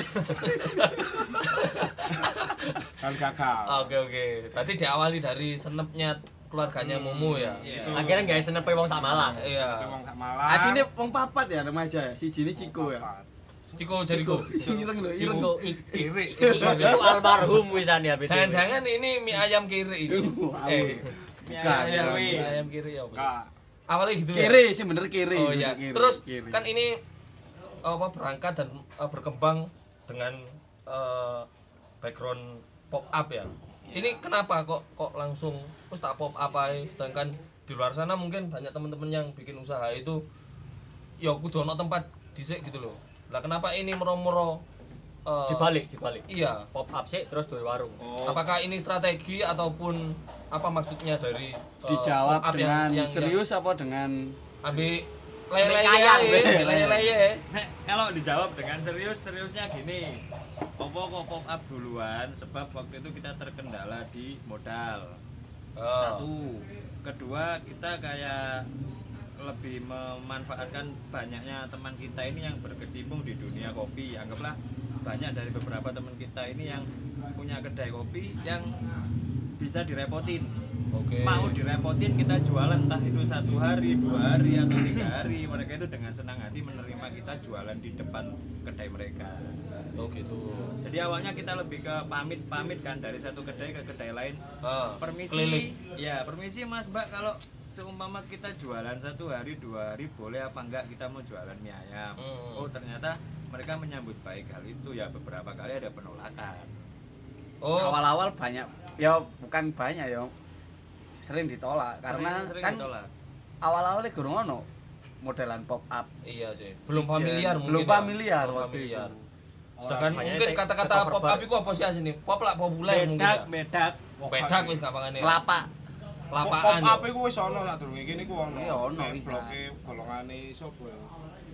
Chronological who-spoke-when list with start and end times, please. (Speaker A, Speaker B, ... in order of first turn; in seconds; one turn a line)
Speaker A: 0.3-2.9
Speaker B: 3.0-3.9
Speaker A: 3.7-7.8
Speaker B: 6.8-8.5
Speaker C: 7.6-8.3
Speaker D: 7.9-9.4
Speaker B: 9.1-10.9
Speaker A: 9.2-10.0
Speaker E: 10.4-13.1
Speaker B: 12.6-17.2
Speaker A: 13.8-14.5
Speaker E: 14.1-17.2
Speaker D: 15.2-18.8
Speaker A: 18.3-23.3
Speaker E: 20.1-22.5
Speaker C: 21.4-22.5
Speaker B: 23.1-23.5
Speaker A: 23.9-24.6
Speaker E: 24.3-26.6
Speaker A: 25.3-27.0
Speaker A: 27.8-31.5
Speaker A: 32.0-40.2
Speaker A: 41.2-44.6
Speaker A: 45.2-46.7
Speaker D: 45.5-48.0
Speaker B: 48.0-48.4
Speaker A: 48.3-53.4
Speaker E: 51.8-54.4
Speaker A: 54.6-57.4
Speaker D: 55.6-56.5
Speaker E: 56.1-57.1
Speaker C: 57.5-60.2
Speaker C: 60.8-65.2
Speaker A: 65.8-66.3
Speaker C: 65.9-68.7
Speaker C: 69.4-78.8
Speaker C: 79.6-80.6
Speaker A: 80.9-81.6
Speaker C: 81.2-89.7
Speaker A: 90.0-90.8
Speaker C: 90.8-94.4
Speaker A: 94.6-95.7
Speaker C: 95.0-106.7
Speaker A: 102.2-102.7
Speaker A: 107.6-108.0
Speaker E: 107.7-110.3
Speaker E: 111.2-112.9
Speaker C: 112.0-113.1
Speaker E: 113.6-114.7
Speaker E: 115.2-116.1
Speaker A: 116.2-119.1
Speaker E: 116.9-119.2
Speaker B: 119.8-120.3
Speaker A: 119.8-123.5
Speaker D: 120.0-121.5
Speaker C: 122.9-124.0
Speaker B: 124.2-124.8
Speaker A: 124.3-125.4
Speaker E: 125.2-125.7
Speaker A: 126.3-127.1
Speaker B: 126.4-131.1
Speaker E: 128.5-129.6